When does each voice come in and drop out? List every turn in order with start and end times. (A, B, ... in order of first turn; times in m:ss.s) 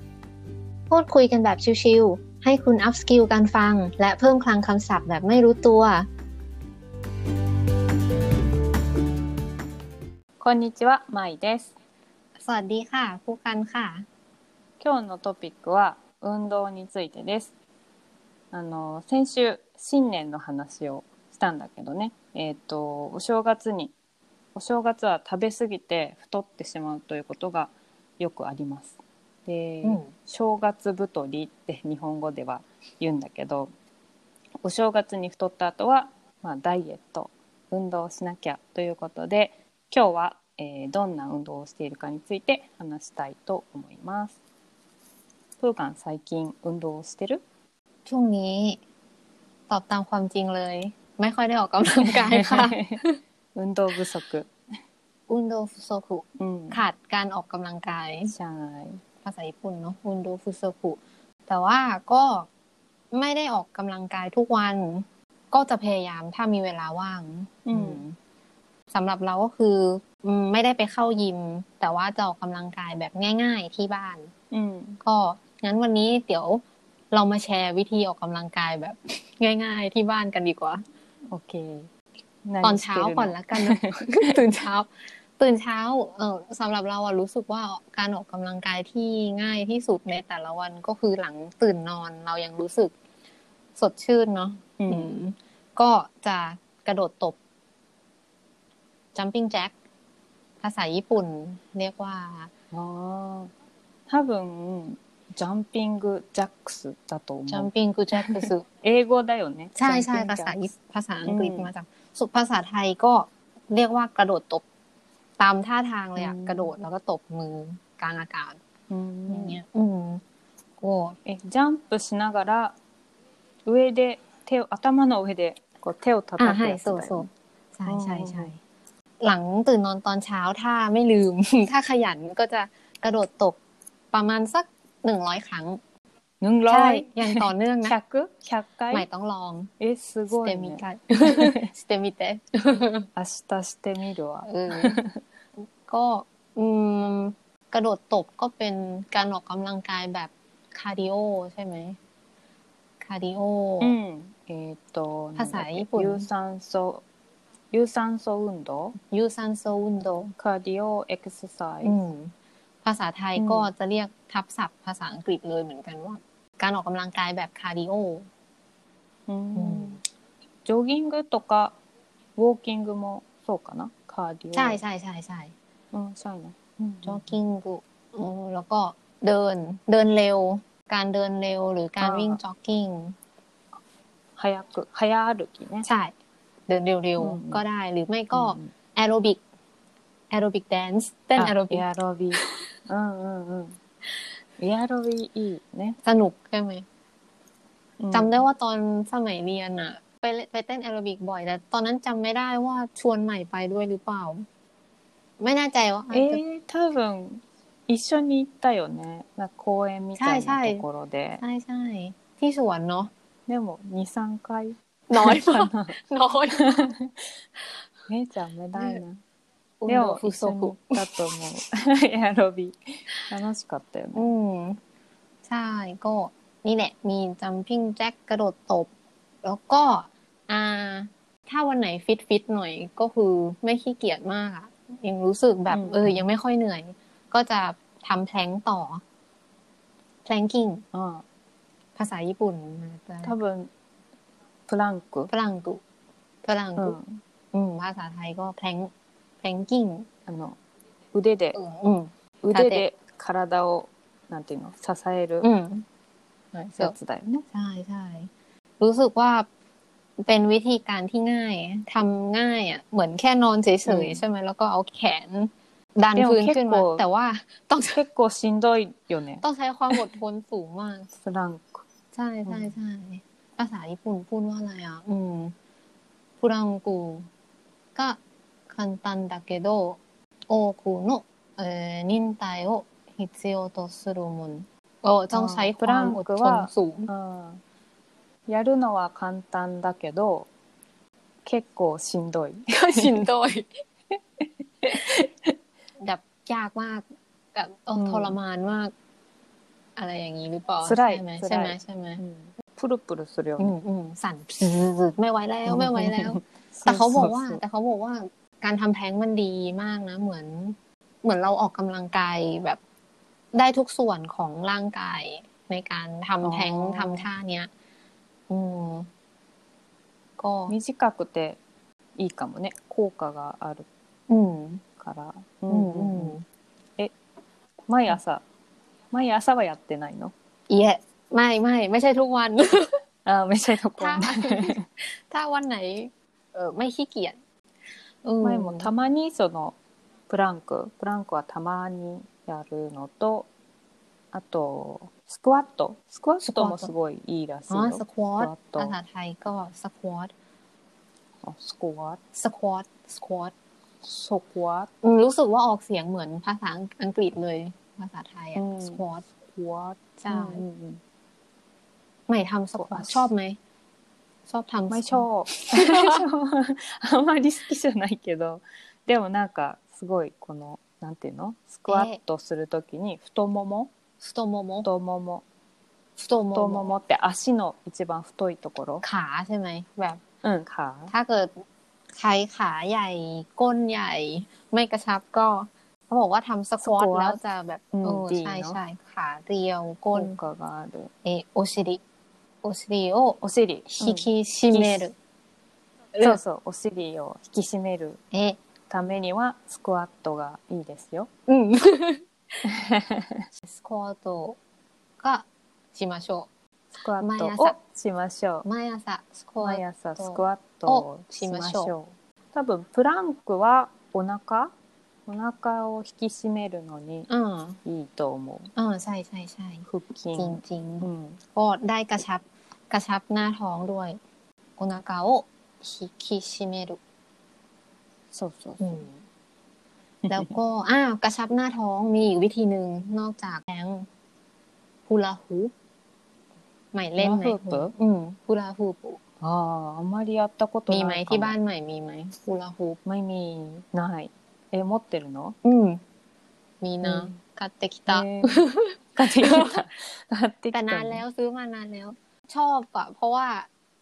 0:00.9-0:06.1 A
0:10.4-0:11.7 B
0:12.4-0:14.0 A
0:14.8-0:17.5 B
0:18.5-0:23.9 B
0:24.5-0:33.7 B
0:29.8-0:30.1 A
0:34.6-0:44.4 B
0:45.6-0:47.4 B
0:48.0-0:48.8 A
0:49.7-0:53.2 A
0:52.0-0:53.0 B
0:53.5-0:54.5 B
0:55.3-0:58.3 A
0:56.4-0:56.8 B
0:58.3-0:59.0 B
0:59.2-1:02.5 A
1:03.1-1:08.2 A
1:07.6-1:08.0 B
1:08.9-1:14.3 A
1:14.5-1:15.0 B
1:15.0-1:20.8 A
1:21.3-1:21.9 B
1:22.4-1:24.3 B
1:22.6-1:32.9 A
1:33.8-1:37.4 A
1:34.8-1:35.1 B
1:39.1-1:39.7 A
1:40.6-1:42.5 A
1:42.7-1:43.5 B
1:44.1-1:50.6 B
1:47.5-1:48.6 A
1:49.8-1:54.6 A
1:51.2-1:51.7 B
1:55.4-1:58.6 A
1:56.2-1:56.8 B
1:58.9-1:59.6 B
1:59.3-2:00.2 A
2:00.8-2:01.2 A
2:01.2-2:02.7 B
2:03.6-2:07.3 B
2:06.4-2:08.6 A
2:07.8-2:08.5 B
2:09.2-2:13.6 A
2:14.1-2:15.8 A
2:16.4-2:19.1 B
2:16.7-2:17.9 A
2:18.9-2:19.7 A
2:19.8-2:21.6 B
2:20.3-2:23.1 A
2:23.2-2:25.2 B
2:24.4-2:24.9 A
2:25.8-2:32.0 A
2:33.0-2:33.9 A
2:33.8-2:37.0 B
2:35.4-2:36.3 A
2:37.7-2:39.0 B
2:39.0-2:40.3 A
2:40.4-2:42.0 B
2:41.8-2:42.3 A
2:42.8-2:48.3 A
2:43.4-2:43.7 B
2:49.3-2:50.0 B
2:49.6-2:50.0 A
2:50.6-2:51.7 B
2:52.4-2:54.8 B
2:54.5-2:55.5 A
2:55.9-2:57.3 B
2:57.0-3:03.2 A
3:02.0-3:02.4 B
3:04.4-3:05.8 B
3:05.8-3:06.1 A
3:06.7-3:09.4 A
3:07.2-3:07.6 B
3:08.3-3:08.7 B
3:10.3-3:11.8 A
3:11.4-3:13.8 B
3:14.6-3:16.0 B
3:16.0-3:16.8 A
3:18.0-3:18.4 B
3:18.1-3:24.4 A
3:25.4-3:26.4 A
3:26.1-3:31.4 B
3:30.2-3:30.8 A
3:31.4-3:33.1 A
3:33.5-3:36.0 B
3:35.1-3:36.9 A
3:36.5-3:37.3 B
3:38.1-3:39.2 B
3:39.8-3:41.0 A
3:39.9-3:44.3 B
3:44.1-3:44.8 A
3:45.4-3:48.9 A
3:49.4-3:59.0 A
3:55.7-3:56.2 B
4:00.2-4:00.8 A
4:00.9-4:01.2 B
4:02.0-4:03.4 A
4:03.2-4:03.7 B
4:04.7-4:05.3 B
4:05.3-4:05.8 A
4:06.4-4:07.0 A
4:06.8-4:07.2 B
4:07.5-4:08.9 A
4:09.4-4:10.1 A
4:10.3-4:10.6 B
4:11.1-4:11.6 B
4:11.5-4:12.8 A
4:12.4-4:15.5 B
4:15.4-4:15.8 A
4:16.5-4:16.9 A
4:16.7-4:17.4 B
4:17.5-4:19.5 A
4:20.2-4:28.0 A
4:23.8-4:24.2 B
4:26.1-4:27.0 B
4:27.9-4:30.1 B
4:29.4-4:31.1 A
4:31.2-4:31.8 B
4:32.1-4:35.5 A
4:32.5-4:32.7 B
4:36.4-4:37.3 A
4:37.9-4:47.1 A
4:45.3-4:47.6 B
4:48.5-4:50.5 B
4:51.4-4:53.2 B
4:52.7-4:53.7 A
4:54.8-4:55.5 B
4:56.0-4:58.9 A
4:58.0-4:58.4 B
5:00.0-5:02.2 A
5:00.8-5:03.7 B
5:03.6-5:12.8 A
5:05.6-5:07.6 B
5:13.5-5:17.7 A
5:16.4-5:17.3 B
5:18.5-5:19.1 A
5:20.4-5:20.7 A
5:20.7-5:21.6 B
5:22.2-5:23.8 B
5:24.3-5:24.8 A
5:25.0-5:26.4 B
5:25.7-5:26.4 A
5:27.9-5:28.4 B
5:29.1-5:30.3 B
5:30.7-5:33.0 A
5:33.2-5:34.8 B
5:34.0-5:37.4 A
5:38.2-5:38.9 A
5:38.4-5:39.8 B
5:40.3-5:43.5 B
5:44.3-5:49.0 B
5:46.4-5:46.9 A
5:47.7-5:50.3 A
5:51.4-5:52.2 B
5:52.4-5:53.5 A
5:54.0-5:54.9 B
5:55.0-5:59.3 A
5:58.6-6:01.0 B
6:00.2-6:00.6 A
6:02.3-6:03.6 A
6:02.7-6:03.3 B
6:04.5-6:06.2 A
6:04.9-6:13.9 B
6:11.9-6:12.2 A
6:14.2-6:14.9 A
6:14.8-6:15.4 B
6:16.2-6:16.9 A
6:16.5-6:19.0 B
6:19.0-6:20.2 A
6:20.4-6:21.1 B
6:21.1-6:21.6 A
6:22.1-6:30.4 A
6:26.8-6:27.4 B
6:27.9-6:28.8 B
6:30.1-6:31.1 B
6:31.2-6:32.0 A
6:32.6-6:33.4 A
6:33.4-6:35.1 B
6:34.0-6:35.1 A
6:36.1-6:36.4 A
6:36.2-6:38.2 B
6:38.3-6:38.6 A
6:38.9-6:41.3 B
6:41.5-6:42.2 A
6:42.6-6:43.4 B
6:43.6-6:44.6 A
6:45.2-6:46.5 A
6:47.0-6:48.6 B
6:47.2-6:47.7 A
6:48.6-6:51.9 A
6:49.6-6:54.7 B
6:55.3-6:57.3 B
6:57.3-6:57.8 A
6:57.8-6:58.7 B
6:58.8-7:04.2 A
6:59.8-7:01.4 B
7:04.8-7:07.0 A
7:08.3-7:09.0 B
7:08.8-7:09.2 A
7:10.2-7:10.5 B
7:10.3-7:14.1 A
7:15.1-7:15.7 A
7:16.9-7:19.2 A
7:17.2-7:17.9 B
7:19.4-7:21.6 B
7:20.9-7:23.0 A
7:23.0-7:25.6 B
7:25.6-7:26.0 A
7:26.8-7:29.7 A
7:27.0-7:27.4 B
7:28.1-7:28.6 B
7:29.2-7:31.2 B
7:30.7-7:33.7 A